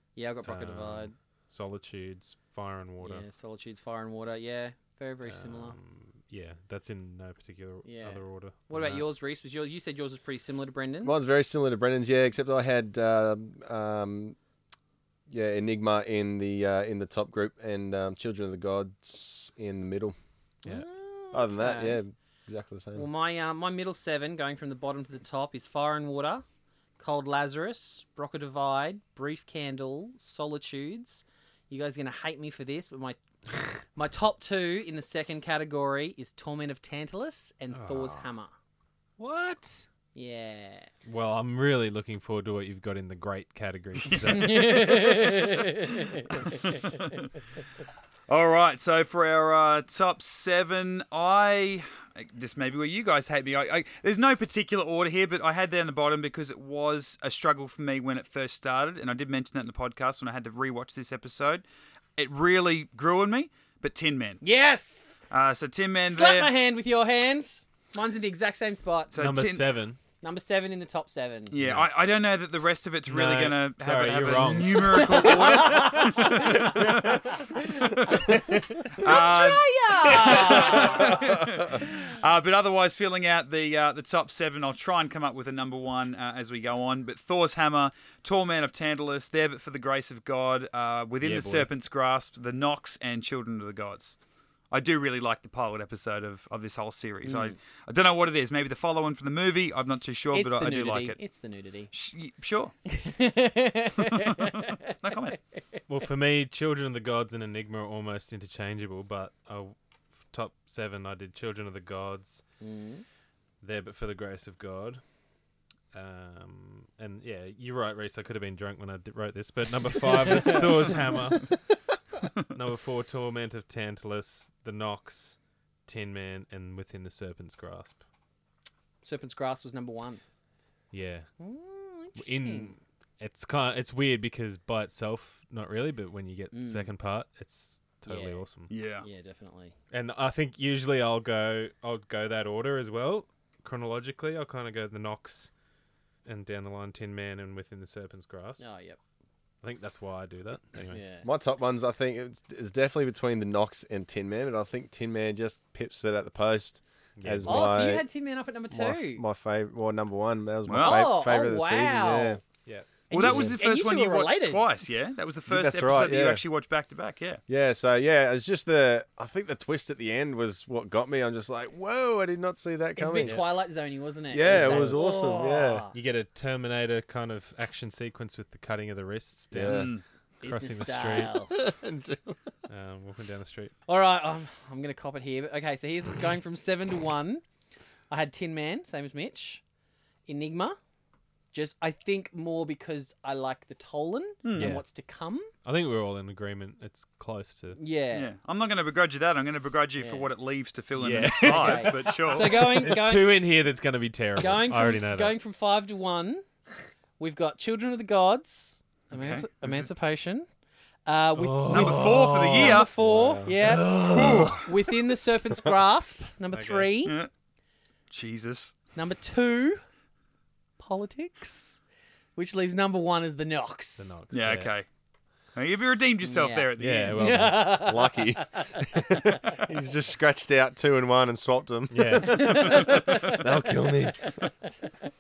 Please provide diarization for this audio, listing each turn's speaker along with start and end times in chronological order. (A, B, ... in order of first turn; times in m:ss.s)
0:00.2-0:01.1 A
0:00.4-0:03.2 B
0:03.0-0:05.8 A
0:05.3-0:09.1 B
0:07.8-0:11.3 A
0:11.0-0:14.4 C
0:15.3-0:20.2 C
0:20.6-0:22.0 A
0:21.3-0:23.1 C
0:23.0-0:26.4 A
0:27.0-0:33.2 A
0:33.8-0:38.5 A
0:37.7-0:38.2 B
0:39.2-0:39.8 B
0:40.1-0:40.9 A
0:41.0-0:45.6 B
0:44.0-0:44.9 D
0:44.3-0:46.8 A
0:46.3-0:46.6 B
0:48.3-1:01.6 D
1:02.2-1:04.4 D
1:04.4-1:05.2 A
1:05.3-1:06.5 D
1:06.0-1:09.1 A
1:09.1-1:09.7 D
1:09.2-1:10.0 B
1:10.2-1:11.5 A
1:11.5-1:18.4 D
1:11.6-1:11.9 B
1:13.1-1:15.7 B
1:14.9-1:17.4 A
1:18.0-1:21.3 A
1:19.0-1:34.2 D
1:31.2-1:31.7 B
1:34.7-1:41.2 D
1:37.2-1:37.6 A
1:40.3-1:41.9 A
1:41.9-1:42.7 D
1:42.9-1:44.9 A
1:44.0-1:45.4 D
1:45.9-1:52.4 B
1:52.6-1:53.0 A
1:53.6-1:55.0 B
1:55.9-2:01.6 B
2:00.3-2:00.7 A
2:02.4-2:08.0 B
2:09.0-2:10.2 A
2:10.9-2:11.3 B
2:11.4-2:12.8 A
2:12.2-2:18.7 B
2:16.5-2:16.9 A
2:18.1-2:18.4 A
2:18.7-2:19.1 D
2:19.0-2:19.7 A
2:19.9-2:25.5 B
2:26.2-2:28.6 B
2:28.6-2:29.0 A
2:29.6-2:31.0 B
2:30.9-2:31.3 A
2:31.2-2:38.1 C
2:37.2-2:37.8 B
2:37.5-2:39.2 A
2:38.7-2:42.4 C
2:40.7-2:41.1 D
2:40.8-2:42.4 A
2:43.1-2:44.6 A
2:43.1-2:47.4 D
2:43.2-2:43.5 C
2:45.5-2:46.4 C
2:47.5-2:53.4 C
2:53.0-2:55.9 A
2:54.3-2:55.8 C
2:54.5-2:55.1 B
2:55.9-3:01.4 B
2:59.5-2:59.9 C
2:59.7-3:00.0 D
3:00.4-3:01.5 A
3:01.6-3:02.4 C
3:02.7-3:03.7 B
3:03.9-3:07.4 A
3:08.1-3:09.6 A
3:10.3-3:10.8 A
3:11.5-3:15.5 A
3:14.4-3:14.8 D
3:14.6-3:14.8 B
3:15.6-3:17.8 B
3:17.8-3:18.3 A
3:18.1-3:22.8 D
3:20.0-3:20.3 A
3:21.0-3:25.4 B
3:21.4-3:23.4 A
3:24.4-3:26.4 A
3:27.2-3:30.5 A
3:29.1-3:29.4 B
3:29.2-3:29.5 D
3:31.1-3:37.2 A
3:31.4-3:32.9 B
3:31.7-3:32.9 D
3:33.0-3:33.6 C
3:33.5-3:35.1 B
3:34.1-3:34.7 D
3:36.5-3:36.9 B
3:37.0-3:37.3 D
3:38.1-3:38.8 D
3:39.0-3:39.8 A
3:40.8-3:41.8 A
3:42.4-3:44.2 A
3:44.0-3:44.7 B
3:44.3-3:44.9 D
3:45.6-3:47.2 D
3:46.2-3:49.4 A
3:46.8-3:47.8 B
3:47.8-3:54.4 C
3:51.9-3:52.9 B
3:52.2-3:53.4 A